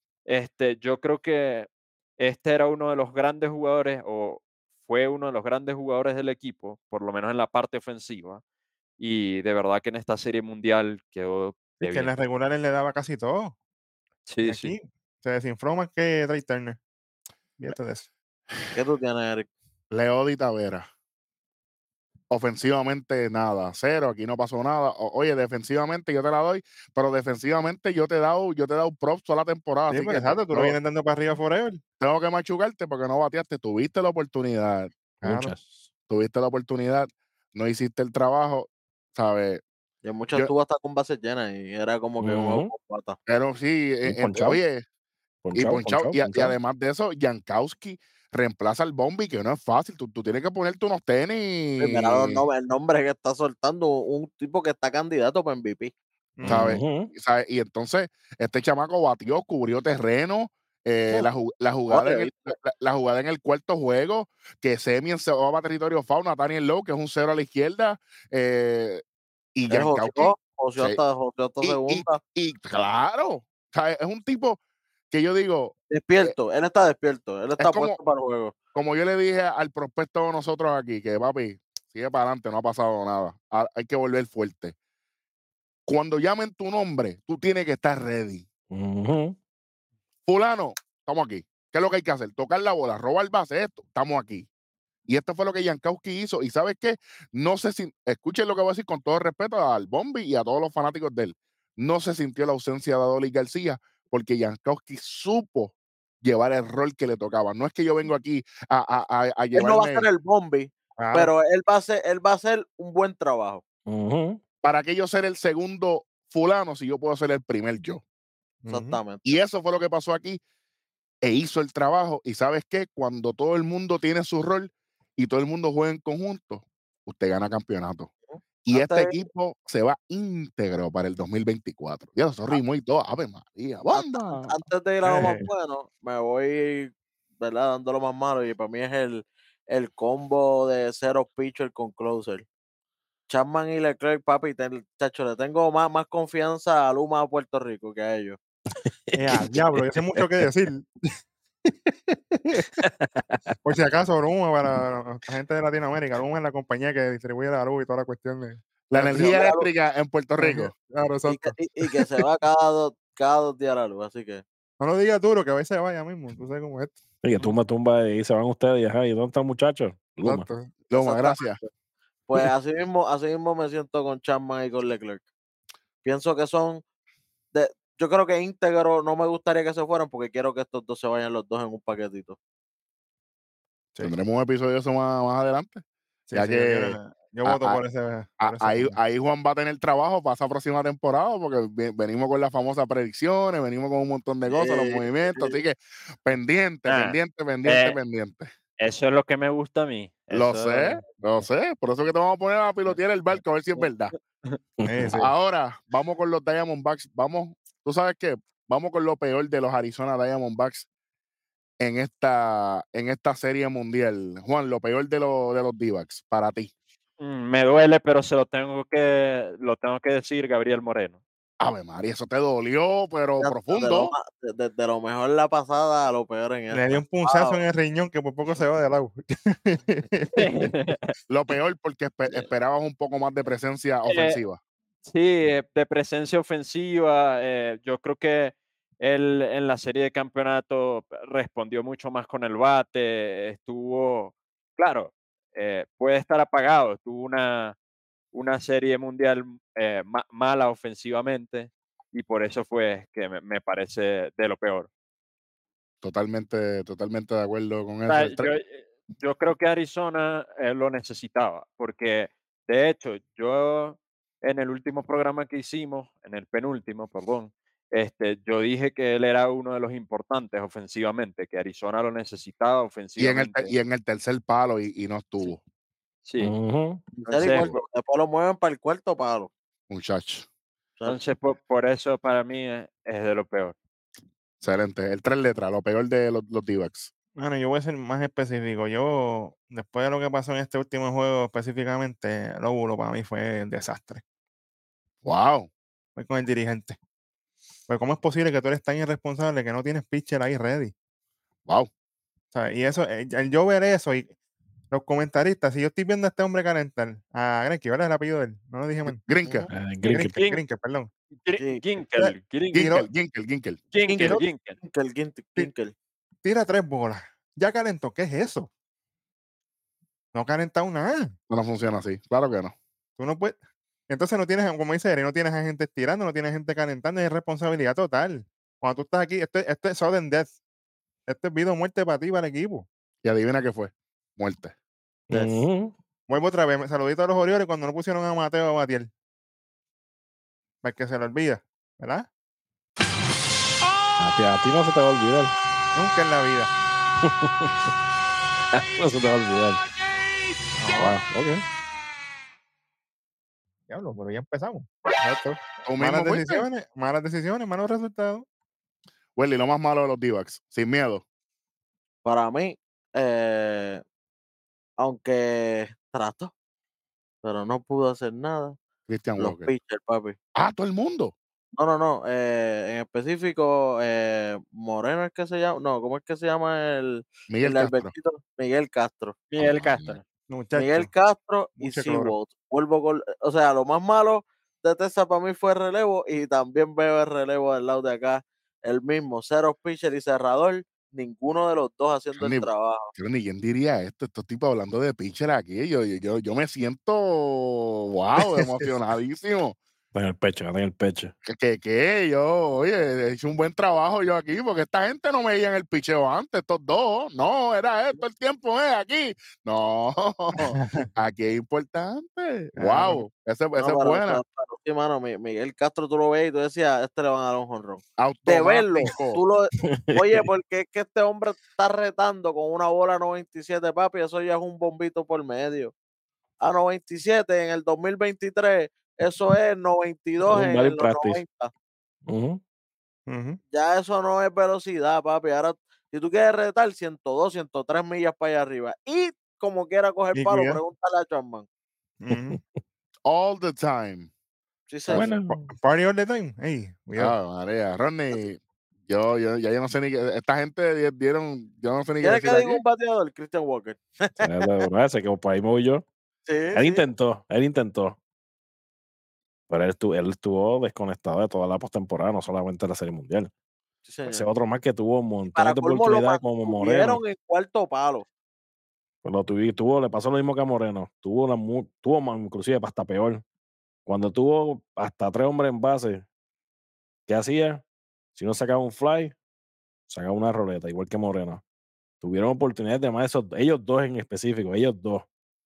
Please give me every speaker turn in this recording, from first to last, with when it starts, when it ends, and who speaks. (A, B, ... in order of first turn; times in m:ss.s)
0:00.2-0:08.4 A
0:09.0-0:12.1 A
0:11.8-0:13.5 B
0:14.3-0:14.7 A
0:14.4-0:16.8 B
0:17.6-0:18.1 B
0:18.7-0:19.5 C
0:19.9-0:20.9 D
0:22.3-0:30.8 D
0:29.9-0:31.8 B
0:32.0-0:34.9 D
0:35.2-0:35.5 B
0:35.2-0:35.8 E
0:36.1-0:39.6 D
0:40.0-0:43.2 C
0:42.2-0:42.7 E
0:43.3-0:44.8 D
0:44.0-0:44.6 E
0:45.4-0:46.5 E
0:45.5-0:52.4 D
0:51.8-0:55.9 C
0:56.4-0:56.8 B
0:56.4-0:57.1 E
0:56.4-1:09.0 D
1:01.9-1:02.5 C
1:09.5-1:11.0 D
1:09.7-1:12.2 C
1:11.6-1:14.6 D
1:15.1-1:16.3 D
1:15.9-1:18.5 C
1:17.6-1:18.0 D
1:18.7-1:24.8 D
1:25.8-1:28.5 D
1:28.7-1:29.4 E
1:30.3-1:34.5 D
1:35.1-1:50.1 D
1:49.5-1:53.6 C
1:51.0-1:51.3 B
1:53.9-1:54.4 E
1:54.6-1:58.0 D
1:58.6-1:59.0 B
1:58.7-1:59.2 C
1:59.2-2:00.4 D
2:01.2-2:08.1 D
2:08.3-2:09.2 C
2:08.6-2:14.6 D
2:13.9-2:22.4 C
2:15.0-2:15.5 B
2:23.3-2:28.4 C
2:28.8-2:30.3 E
2:29.1-2:30.9 B
2:31.7-2:32.6 B
2:32.7-2:33.5 E
2:33.6-2:39.4 B
2:38.9-2:40.7 D
2:39.0-2:39.7 C
2:40.4-2:41.6 B
2:41.2-2:44.4 C
2:44.8-2:47.5 B
2:47.2-2:50.5 E
2:50.2-2:50.7 B
2:50.9-2:51.6 D
2:50.9-2:51.7 C
2:52.3-2:55.2 C
2:56.0-2:56.8 C
2:57.5-3:02.4 C
3:04.0-3:05.8 D
3:06.3-3:09.0 B
3:06.3-3:07.8 D
3:08.4-3:18.5 D
3:14.5-3:15.6 C
3:16.9-3:18.0 A
3:18.8-3:21.0 A
3:20.3-3:24.1 D
3:24.8-3:25.2 E
3:24.8-3:25.3 B
3:25.1-3:30.9 D
3:31.8-3:36.7 D
3:37.2-3:41.2 A
3:41.6-3:44.1 D
3:43.4-3:47.6 C
3:46.7-3:50.7 B
3:50.4-3:51.0 A
3:51.3-3:54.6 D
3:54.0-3:54.4 A
3:55.0-4:07.8 A
4:08.3-4:14.9 A
4:16.0-4:18.5 D
4:18.1-4:33.7 A
4:33.2-4:35.6 D
4:36.2-4:36.5 A
4:36.4-4:37.0 E
4:37.2-4:39.5 C
4:37.3-4:37.8 A
4:39.9-4:40.5 D
4:41.0-4:43.8 A
4:44.6-4:47.1 D
4:47.4-4:54.2 B
4:55.2-4:55.7 D
4:56.2-4:57.0 B
4:57.9-5:00.9 B
5:02.5-5:04.3 B
5:04.9-5:09.2 B
5:09.0-5:09.7 D
5:09.7-5:10.4 E
5:10.1-5:11.1 B
5:10.3-5:10.6 A
5:11.4-5:12.9 A
5:12.2-5:13.0 B
5:12.7-5:13.8 D
5:13.9-5:14.8 A
5:14.1-5:15.9 C
5:16.4-5:18.7 B
5:20.3-5:21.3 B
5:21.5-5:22.7 D
5:23.2-5:23.6 B
5:24.1-5:30.5 B
5:31.3-5:32.8 B
5:33.2-5:34.7 D
5:35.3-5:35.9 E
5:36.3-5:39.1 B
5:40.8-5:42.3 B
5:44.2-5:45.5 E
5:45.9-5:46.7 B
5:47.2-5:47.7 E
5:48.7-5:49.8 E
5:50.8-5:51.2 B
5:51.0-5:51.6 E
5:53.9-5:58.4 B
5:55.8-5:56.6 D
5:59.4-6:01.2 D
6:02.2-6:04.0 C
6:05.0-6:06.5 C
6:07.4-6:08.8 C
6:09.1-6:09.7 D
6:09.4-6:10.4 C
6:10.5-6:11.3 D
6:11.8-6:19.4 C
6:17.5-6:18.1 D
6:19.5-6:20.2 A
6:19.6-6:20.2 D
6:20.5-6:21.1 B
6:20.7-6:33.1 C
6:21.8-6:22.4 B
6:32.4-6:39.8 D
6:40.1-6:41.3 E
6:41.4-6:54.4 D
6:50.6-6:51.1 B
6:52.8-6:53.2 B
6:53.7-7:05.9 C
6:58.2-6:59.4 D
6:59.8-7:00.4 E
7:06.6-7:11.7 C
7:10.4-7:11.4 E
7:12.3-7:12.6 E
7:13.3-7:13.6 B
7:13.7-7:21.7 C
7:20.3-7:20.8 B
7:22.2-7:22.6 B
7:22.3-7:22.6 E
7:23.2-7:24.3 D
7:24.9-7:25.3 C
7:25.1-7:25.7 E
7:25.5-7:27.3 B
7:27.2-7:32.8 D
7:32.2-7:34.8 C
7:34.4-7:36.0 E
7:36.5-7:37.0 C
7:36.7-7:38.2 E
7:39.7-7:43.5 E
7:44.0-7:44.4 C
7:44.2-7:47.2 E
7:45.5-7:48.3 C
7:49.2-7:53.4 E
7:54.0-7:56.2 E
7:57.3-7:57.8 E
7:58.3-7:59.3 E
8:00.1-8:01.6 E
8:02.2-8:05.2 E